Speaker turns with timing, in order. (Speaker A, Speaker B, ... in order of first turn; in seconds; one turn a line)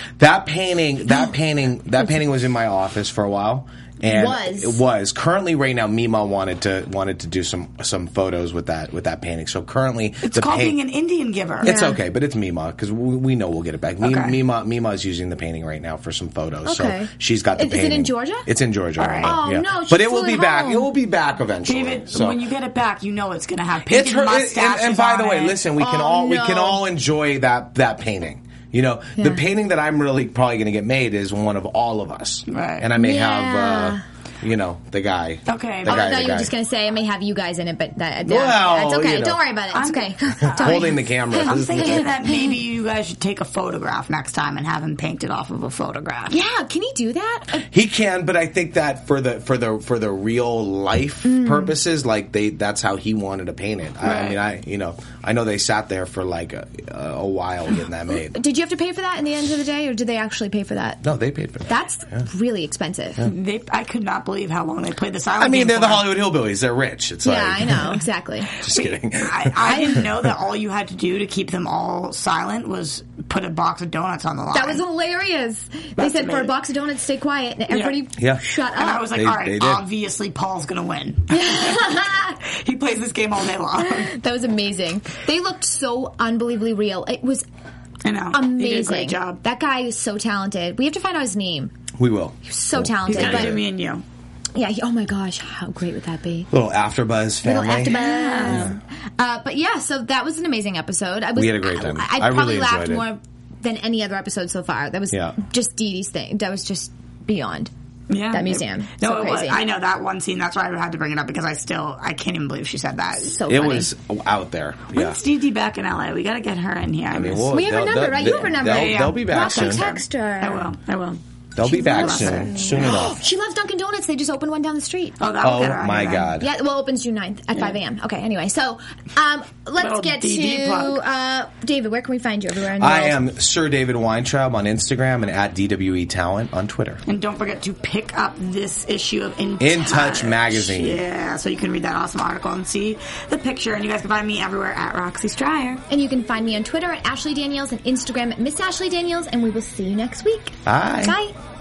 Speaker A: 0.2-10.8
Speaker B: 4.0-4.8
Speaker C: 10.2-11.7
Speaker A: 11.6-22.4
Speaker B: 11.6-12.0
Speaker C: 14.0-14.4
Speaker B: 16.6-18.5
Speaker C: 19.0-19.4
Speaker B: 19.2-20.9
Speaker C: 21.6-25.6
Speaker A: 23.9-36.5
Speaker B: 25.8-26.8
Speaker B: 29.2-29.4
Speaker C: 32.5-32.9
Speaker B: 33.0-34.0
Speaker C: 35.5-36.1
Speaker B: 35.9-42.6
Speaker A: 38.2-39.4
Speaker C: 39.7-46.3
Speaker A: 40.5-42.1
Speaker B: 46.3-47.6
Speaker A: 47.6-58.4
Speaker B: 51.2-51.7
Speaker C: 54.0-54.4
Speaker B: 58.3-61.0
Speaker A: 61.0-62.2
Speaker B: 61.7-63.3
Speaker C: 63.2-66.1
Speaker A: 65.4-68.0
Speaker B: 67.2-68.5
Speaker C: 68.6-74.8
Speaker A: 68.6-70.3
Speaker B: 69.6-70.0
Speaker B: 74.5-79.1
Speaker C: 76.0-76.5
Speaker C: 77.7-78.0
Speaker C: 78.7-84.1
Speaker A: 79.1-79.8
Speaker B: 81.3-82.4
Speaker B: 83.8-87.4
Speaker C: 88.0-89.4
Speaker B: 88.3-91.7
Speaker A: 92.0-93.6
Speaker B: 92.4-93.6
Speaker C: 93.1-94.0
Speaker B: 94.5-96.5
Speaker A: 96.5-98.8
Speaker B: 97.4-107.7
Speaker C: 97.8-98.7
Speaker A: 101.3-103.0
Speaker C: 108.1-113.4
Speaker B: 108.3-109.6
Speaker B: 113.2-113.9
Speaker A: 113.5-115.2
Speaker C: 114.9-117.5
Speaker A: 117.1-119.8
Speaker B: 117.5-120.7
Speaker C: 118.5-122.8
Speaker A: 121.5-123.2
Speaker B: 121.6-125.2
Speaker C: 125.2-126.3
Speaker A: 125.4-126.5
Speaker B: 126.4-133.2
Speaker C: 129.8-131.0
Speaker A: 132.8-137.0
Speaker C: 137.1-145.8
Speaker A: 139.6-141.0
Speaker B: 145.9-151.3
Speaker A: 150.6-151.2